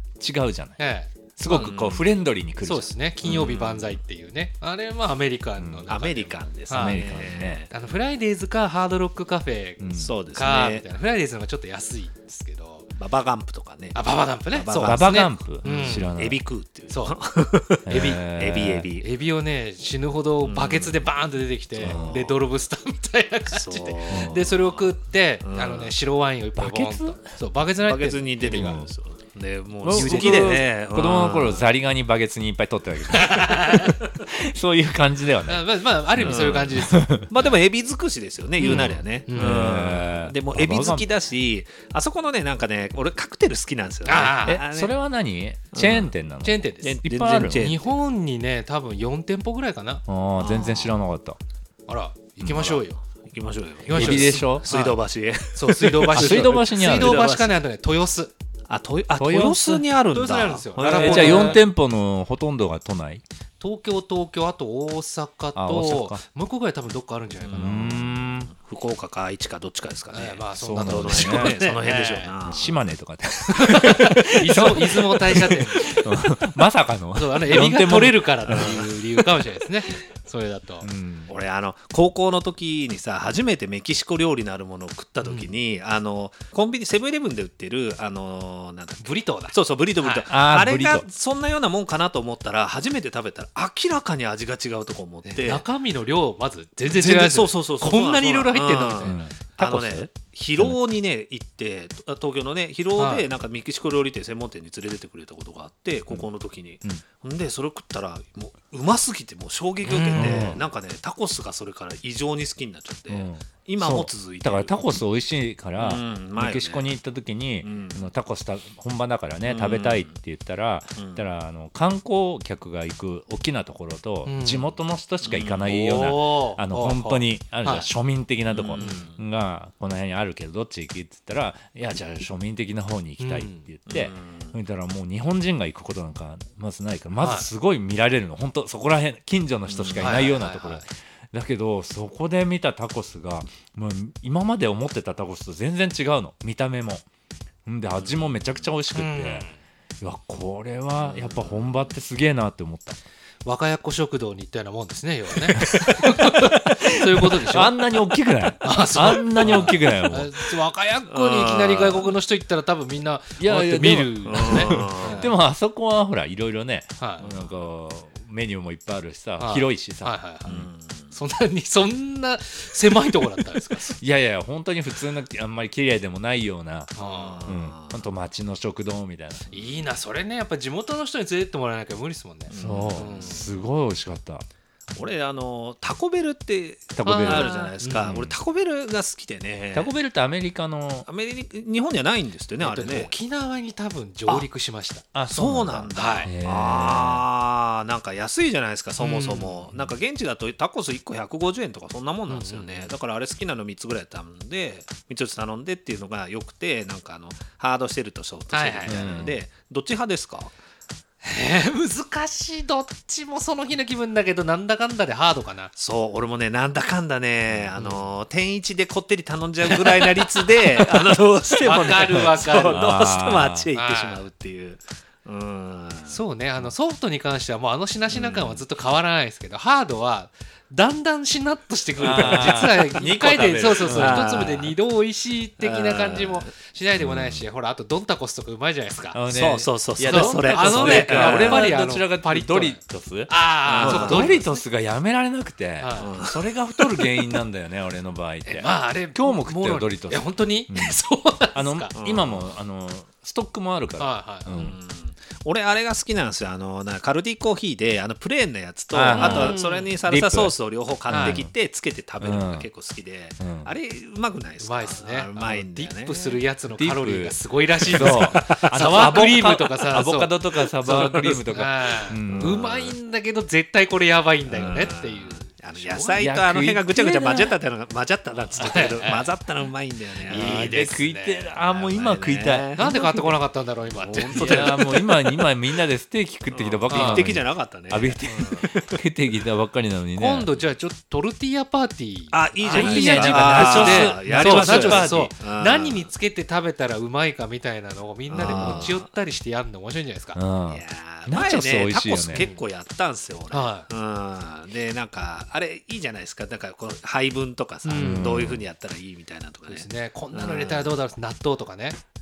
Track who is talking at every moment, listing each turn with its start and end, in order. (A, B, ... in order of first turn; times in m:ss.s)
0:00.2-0:00.8 A
0:00.8-0:01.8 B
0:01.4-0:02.9 A
0:01.5-0:02.0 C
0:02.6-0:07.1 B
0:03.2-0:04.0 C
0:05.6-0:05.8 A
0:05.9-0:07.7 C
0:06.7-0:07.6 A
0:07.7-0:12.9 B
0:09.8-0:10.1 A
0:10.0-0:10.8 C
0:13.0-0:19.1 C
0:13.9-0:16.2 B
0:14.8-0:16.4 A
0:16.9-0:17.2 B
0:17.9-0:18.9 A
0:17.9-0:18.2 B
0:18.9-0:28.8 B
0:20.4-0:21.0 C
0:21.8-0:22.4 C
0:21.8-0:22.1 A
0:23.5-0:24.9 C
0:24.1-0:24.4 A
0:25.4-0:25.9 C
0:26.6-0:27.2 A
0:27.8-0:31.7 C
0:28.6-0:28.9 A
0:29.8-0:37.3 A
0:29.9-0:30.7 B
0:33.1-0:33.9 B
0:35.5-0:37.6 B
0:36.2-0:36.7 C
0:37.2-0:44.9 C
0:38.6-0:39.6 B
0:38.6-0:41.0 A
0:44.0-0:44.6 B
0:44.4-0:47.7 A
0:45.7-0:46.1 C
0:46.4-0:47.0 B
0:46.8-0:47.9 C
0:47.5-0:50.0 B
0:50.1-0:51.4 A
0:50.4-0:50.9 C
0:51.9-0:53.0 B
0:52.4-0:57.5 C
0:53.8-0:55.0 B
0:53.9-0:54.6 A
0:55.5-0:58.3 B
0:56.1-0:57.2 A
0:58.7-1:01.6 C
0:59.2-0:59.8 A
1:00.1-1:01.6 B
1:00.8-1:03.2 A
1:03.6-1:08.1 B
1:05.6-1:06.2 A
1:07.5-1:08.5 A
1:08.5-1:12.8 C
1:10.1-1:12.3 B
1:10.6-1:11.6 A
1:12.4-1:18.9 A
1:13.5-1:16.2 B
1:17.1-1:20.9 B
1:18.5-1:18.9 C
1:20.8-1:21.3 A
1:21.3-1:35.6 C
1:29.0-1:30.2 B
1:30.3-1:31.1 A
1:35.2-1:39.2 B
1:36.9-1:55.0 C
1:39.0-1:40.8 A
1:43.0-1:43.3 B
1:49.8-1:50.6 B
1:50.2-1:50.6 A
1:53.1-2:27.0 A
1:55.8-1:56.9 C
1:57.6-1:58.1 C
1:59.4-2:00.1 C
2:01.0-2:01.2 C
2:04.2-2:04.6 B
2:05.2-2:05.8 C
2:05.6-2:07.9 B
2:08.5-2:09.2 C
2:08.8-2:09.1 B
2:13.2-2:13.6 B
2:13.9-2:14.5 C
2:17.2-2:17.5 B
2:19.7-2:20.3 C
2:20.0-2:20.9 B
2:27.6-2:29.5 A
2:28.0-2:28.6 C
2:28.9-2:29.5 B
2:30.0-2:33.0 A
2:31.0-2:31.9 C
2:33.4-2:37.9 B
2:35.5-2:40.3 A
2:38.6-2:45.3 B
2:41.1-2:42.1 C
2:43.4-2:50.7 A
2:44.2-2:45.3 C
2:47.0-2:47.2 B
2:47.2-2:47.5 C
2:49.4-2:50.6 B
2:50.5-2:51.1 C
2:51.1-2:53.9 B
2:53.9-2:56.9 A
2:57.0-2:57.5 B
2:57.0-2:58.0 C
2:57.5-2:59.5 A
2:59.5-3:03.5 B
3:02.5-3:03.4 C
3:02.5-3:04.4 A
3:04.9-3:09.9 C
3:07.0-3:08.4 A
3:07.0-3:08.1 B
3:09.7-3:11.1 A
3:11.1-3:13.1 C
3:12.6-3:15.0 B
3:15.1-3:17.2 A
3:15.3-3:30.5 C
3:15.9-3:16.3 B
3:19.0-3:19.6 B
3:22.3-3:22.8 B
3:28.5-3:29.1 B
3:28.9-3:29.4 A
3:31.2-3:35.7 B
3:35.8-3:46.2 C
3:37.8-3:38.0 B
3:39.9-3:40.2 B
3:41.6-3:42.8 B
3:42.6-3:43.7 A
3:43.8-3:44.2 B
3:46.0-3:59.2 B
3:48.1-3:48.6 C
3:52.0-3:54.5 A
3:52.2-3:52.6 C
3:53.9-3:54.7 C
3:55.6-3:56.5 C
3:57.0-3:57.4 A
3:59.1-4:10.9 A
3:59.3-4:01.7 C
4:00.1-4:04.6 B
4:03.6-4:04.4 C
4:05.8-4:06.1 B
4:06.0-4:06.4 C
4:08.5-4:11.9 B
4:11.5-4:14.8 A
4:11.9-4:12.6 C
4:14.0-4:14.6 B
4:14.5-4:26.4 C
4:18.9-4:20.5 A
4:19.1-4:19.9 B
4:21.1-4:21.5 A
4:21.1-4:21.4 B
4:22.2-4:22.7 A
4:23.4-4:23.7 A
4:24.6-4:36.2 B
4:26.8-4:27.4 A
4:27.9-4:32.7 A
4:27.9-4:29.2 C
4:32.3-4:32.9 C
4:34.5-4:40.9 C
4:36.2-4:37.6 A
4:38.6-4:39.3 B
4:40.3-4:41.5 B
4:40.3-4:42.9 A
4:41.6-4:43.3 C
4:42.8-4:44.9 B
4:44.0-4:50.5 A
4:44.2-4:45.1 C
4:46.5-4:49.0 C
4:46.9-4:47.3 B
4:50.2-5:00.4 B
4:52.3-4:56.1 C
4:52.7-4:55.3 A
4:58.3-4:59.1 C
4:58.5-4:58.9 A
5:00.4-5:02.5 A
5:00.7-5:10.9 C
5:02.4-5:02.6 B
5:03.5-5:03.9 B
5:07.8-5:08.3 B
5:08.0-5:08.6 A
5:09.7-5:12.0 B